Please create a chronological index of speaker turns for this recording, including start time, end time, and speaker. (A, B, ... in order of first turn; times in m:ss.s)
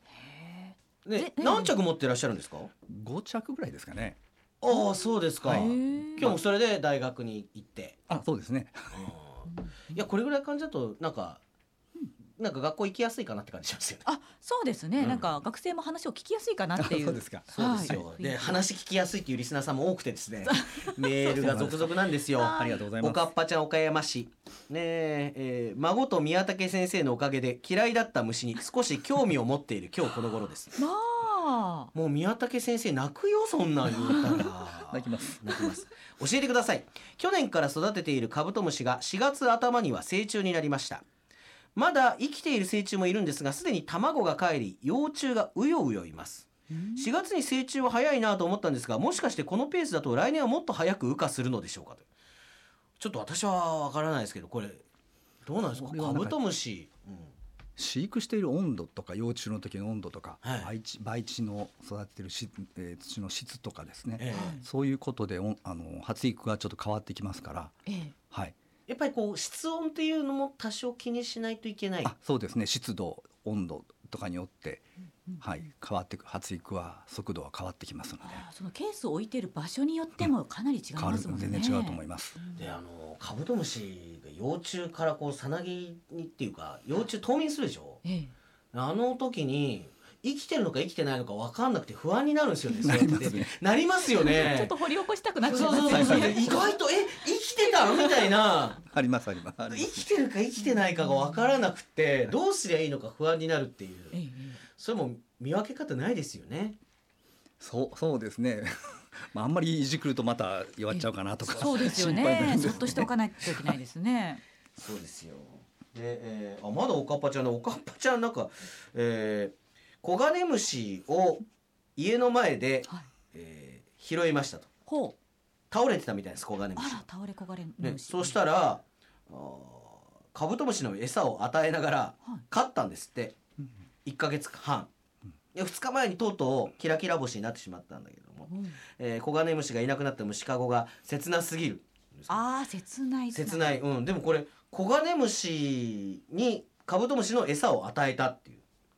0:00.2-0:01.7 A
0:01.0-0:02.7 B
0:02.9-0:04.2 C
0:04.6-0:08.0 B
0:05.4-0:06.4 A
0:05.5-0:06.4 C
0:08.1-0:09.1 C
0:08.9-0:11.4 B
0:09.5-0:10.0 A
0:12.4-0:14.0 B
0:14.0-0:18.6 A
0:15.0-0:15.3 C
0:16.8-0:18.0 C
0:17.5-0:30.8 B
0:20.4-0:21.1 A
0:21.3-0:23.2 C
0:22.4-0:22.8 A
0:30.8-0:31.9 A
0:31.9-0:41.0 B
0:34.0-0:34.4 A
0:34.9-0:35.5 C
0:41.7-0:52.0 B
0:46.7-0:47.1 A
0:53.0-0:54.8 B
0:55.4-0:57.3 B
0:55.7-0:56.4 C
0:57.8-1:07.8 C
1:00.4-1:00.7 B
1:04.2-1:04.6 B
1:04.3-1:04.6 A
1:07.8-1:08.1 A
1:08.9-1:12.1 B
1:12.0-1:14.8 C
1:15.4-1:18.4 C
1:18.2-1:22.6 A
1:21.0-1:22.3 C
1:22.5-1:28.0 B
1:28.0-1:28.3 A
1:28.7-1:34.7 B
1:32.8-1:33.5 C
1:34.2-1:36.6 A
1:35.4-1:38.8 B
1:35.7-1:36.4 C
1:37.7-1:38.3 A
1:38.9-1:40.0 C
1:39.7-1:44.2 B
1:41.0-1:41.4 A
1:44.1-1:44.6 A
1:44.7-1:46.8 B
1:47.6-1:53.1 C
1:50.9-1:54.4 A
1:51.5-1:52.8 B
1:54.8-2:01.4 B
2:02.0-2:04.7 B
2:04.9-2:05.1 A
2:05.7-2:07.0 B
2:06.8-2:08.4 A
2:07.8-2:13.4 B
2:14.0-2:14.9 B
2:15.5-2:22.4 B
2:18.5-2:18.8 A
2:22.3-2:23.8 A
2:23.3-2:28.6 B